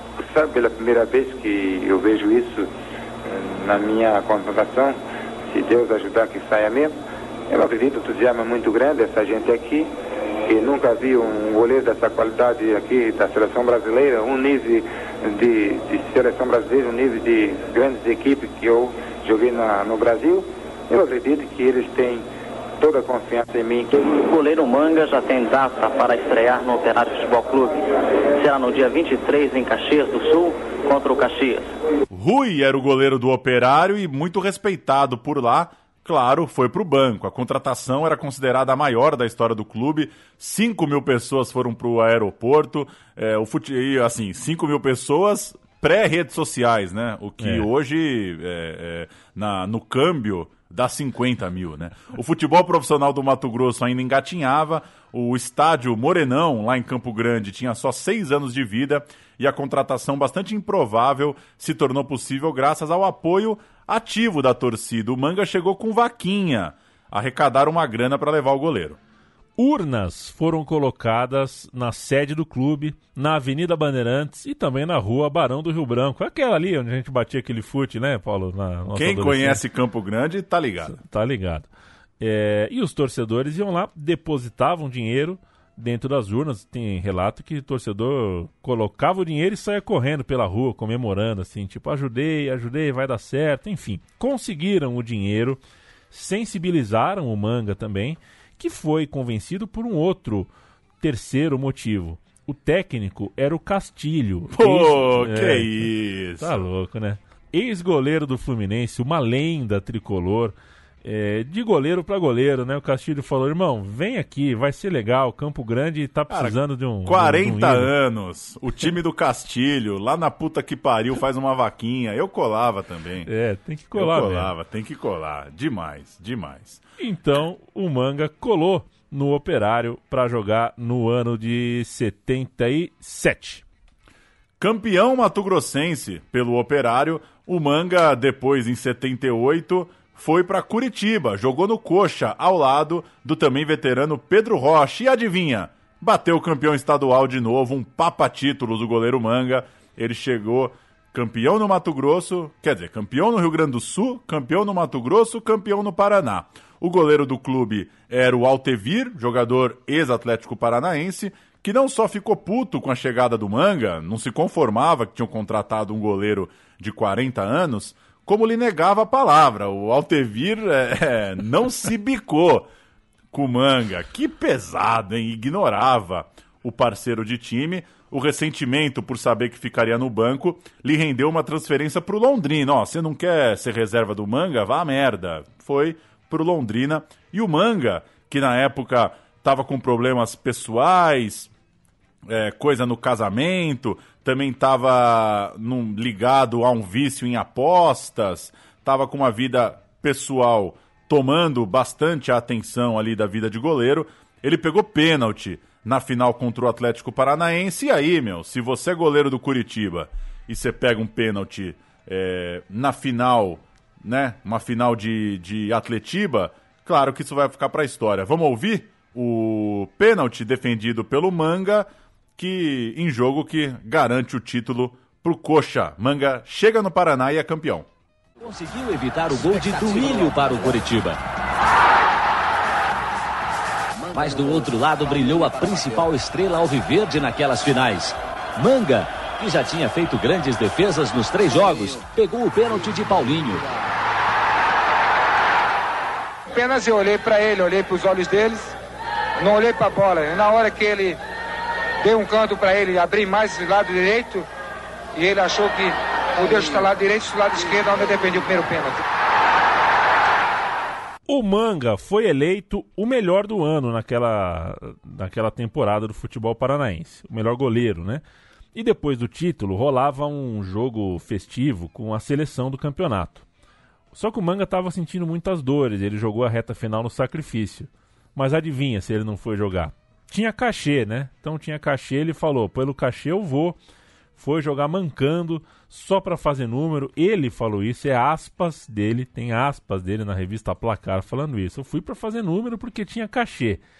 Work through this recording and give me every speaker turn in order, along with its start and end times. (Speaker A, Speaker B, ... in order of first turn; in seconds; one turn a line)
Speaker A: 0.2-2.7
Speaker A: 3.2-6.9
Speaker A: 7.5-9.9
Speaker A: 10.4-22.3
Speaker A: 22.8-24.0
Speaker B: 24.2-27.8
Speaker B: 28.4-31.6
Speaker C: 32.1-69.0
Speaker D: 47.4-47.7
Speaker D: 69.6-79.6
Speaker C: 78.9-81.0
Speaker D: 80.9-81.7
Speaker D: 82.2-95.6
Speaker D: 96.1-117.9
Speaker C: 104.5-106.6
Speaker C: 116.3-123.3
Speaker D: 123.3-124.5
Speaker C: 123.9-126.8
Speaker D: 127.0-133.6
Speaker C: 134.6-172.7
Speaker C: 173.3-191.5
Speaker C: 192.3-227.9
Speaker E: 228.4-231.2
Speaker E: 234.1-243.7
Speaker F: 246.5-248.7
Speaker F: 249.4-251.2
Speaker F: 252.0-254.5
Speaker F: 255.1-259.0
Speaker D: 261.3-268.2
Speaker D: 268.7-273.4
Speaker D: 274.1-283.8
Speaker D: 284.4-293.8